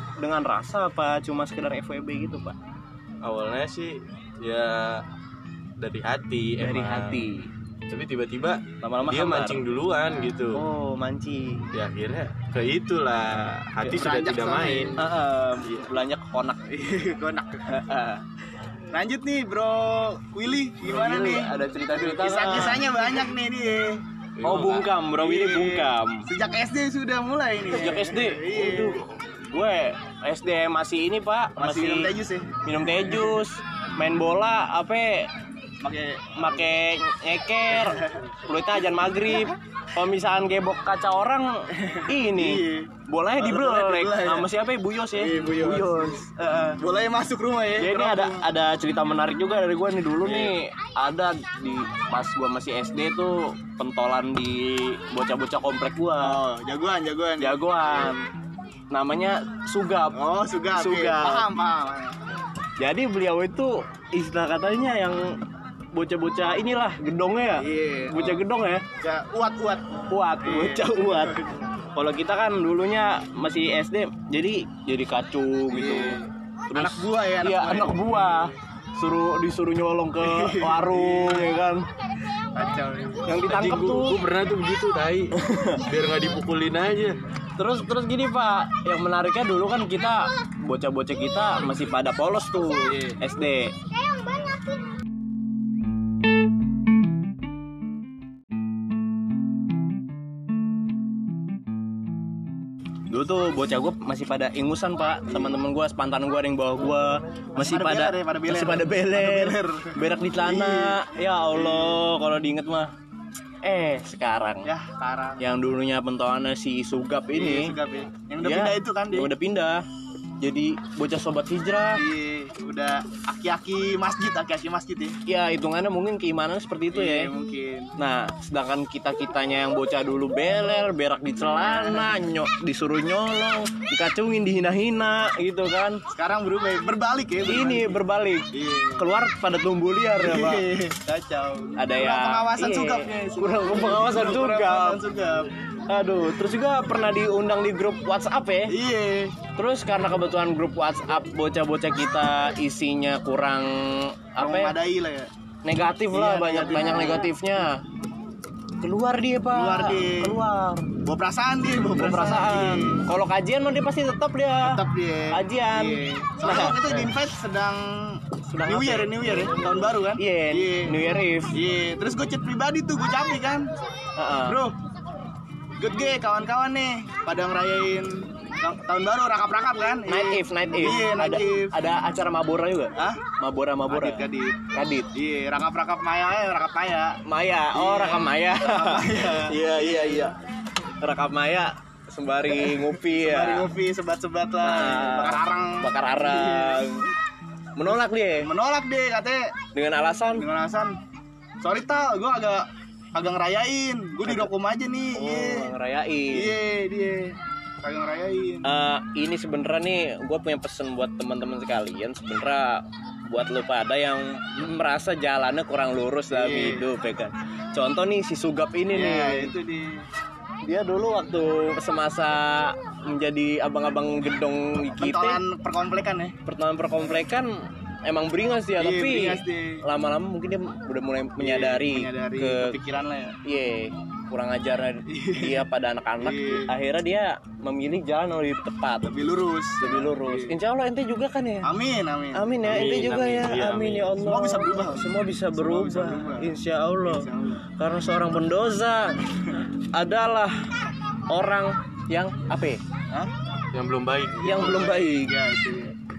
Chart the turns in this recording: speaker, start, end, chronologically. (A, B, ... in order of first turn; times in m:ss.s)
0:00.2-0:02.6 A
0:03.2-0:05.0 B
0:05.8-0:07.2 B
0:06.6-0:07.5 A
0:07.9-0:10.6 B
0:08.8-0:09.6 A
0:10.5-0:11.7 A
0:11.7-0:15.0 B
0:13.8-0:15.0 C
0:15.0-0:16.7 A
0:15.6-0:15.9 B
0:16.7-0:17.7 C
0:17.7-0:18.2 A
0:18.9-0:24.0 C
0:20.8-0:22.9 A
0:24.4-0:24.9 B
0:24.4-0:26.2 A
0:25.1-0:29.0 C
0:27.7-0:32.1 A
0:31.6-0:33.3 C
0:32.6-0:35.3 A
0:35.8-0:36.7 C
0:36.3-0:46.8 A
0:37.7-0:38.2 C
0:39.2-0:39.6 C
0:41.8-0:44.5 C
0:45.1-0:46.2 C
0:46.8-0:48.4 C
0:47.8-0:56.4 A
0:50.2-0:50.5 C
0:56.2-0:57.6 C
0:57.4-0:58.2 A
0:58.9-1:00.2 A
1:00.1-1:02.2 C
1:00.7-1:01.5 A
1:02.8-1:05.3 A
1:05.9-1:08.8 A
1:07.6-1:08.4 C
1:09.0-1:09.8 C
1:10.1-1:11.4 A
1:10.4-1:11.6 C
1:11.9-1:16.2 A
1:15.7-1:18.5 C
1:16.7-1:21.8 A
1:20.2-1:21.6 C
1:22.5-1:23.4 C
1:23.2-1:24.2 A
1:23.5-1:27.2 B
1:25.3-1:25.8 A
1:27.6-1:33.7 A
1:32.9-1:33.2 C
1:43.1-1:52.9 A
1:45.3-1:45.6 C
1:47.6-1:52.0 C
1:53.6-1:54.7 A
1:54.6-1:55.5 C
1:55.4-1:57.7 A
1:57.3-1:59.3 C
1:58.4-1:59.8 A
2:00.4-2:02.0 A
2:01.9-2:05.2 C
2:05.2-2:07.3 A
2:06.9-2:07.9 C
2:08.0-2:16.0 A
2:11.4-2:12.2 C
2:16.1-2:19.0 C
2:17.4-2:20.6 A
2:20.2-2:25.5 C
2:21.8-2:25.0 A
2:25.9-2:28.7 A
2:28.7-2:29.4 C
2:29.6-2:34.7 A
2:34.4-2:35.3 C
2:35.6-2:37.8 A
2:36.1-2:37.3 C
2:38.8-2:40.9 A
2:39.5-2:40.4 C
2:41.0-2:43.0 C
2:41.9-2:44.8 A
2:44.6-2:53.7 C
2:45.3-2:46.8 A
2:48.5-2:51.5 A
2:54.2-2:54.6 A
2:54.4-2:54.8 C
2:55.8-3:01.7 C
3:00.1-3:05.1 A
3:03.0-3:03.2 C
3:03.9-3:04.6 C
3:05.1-3:07.2 C
3:07.2-3:10.3 A
3:07.7-3:10.3 C
3:11.0-3:13.7 A
3:12.5-3:17.0 C
3:14.6-3:17.1 A
3:17.8-3:18.5 A
3:17.8-3:19.5 C
3:19.7-3:20.4 A
3:20.3-3:21.0 C
3:21.6-3:25.7 C
3:25.1-3:26.5 A
3:26.3-3:28.7 C
3:28.6-3:39.5 A
3:36.3-3:36.9 C
3:38.9-3:40.0 C
3:40.6-3:45.4 A
3:44.9-3:46.4 C
3:46.4-3:52.8 A
3:48.8-3:49.8 C
3:51.4-3:53.4 C
3:53.4-3:59.1 A
3:55.1-3:55.6 C
3:56.2-3:56.7 C
3:59.1-4:00.6 C
3:59.8-4:01.7 A
4:01.6-4:02.6 C
4:02.3-4:10.6 A
4:02.6-4:04.2 B
4:04.2-4:06.5 C
4:07.0-4:07.6 C
4:11.3-4:12.8 A
4:13.7-4:14.7 B
4:14.4-4:15.9 C
4:14.4-4:15.3 A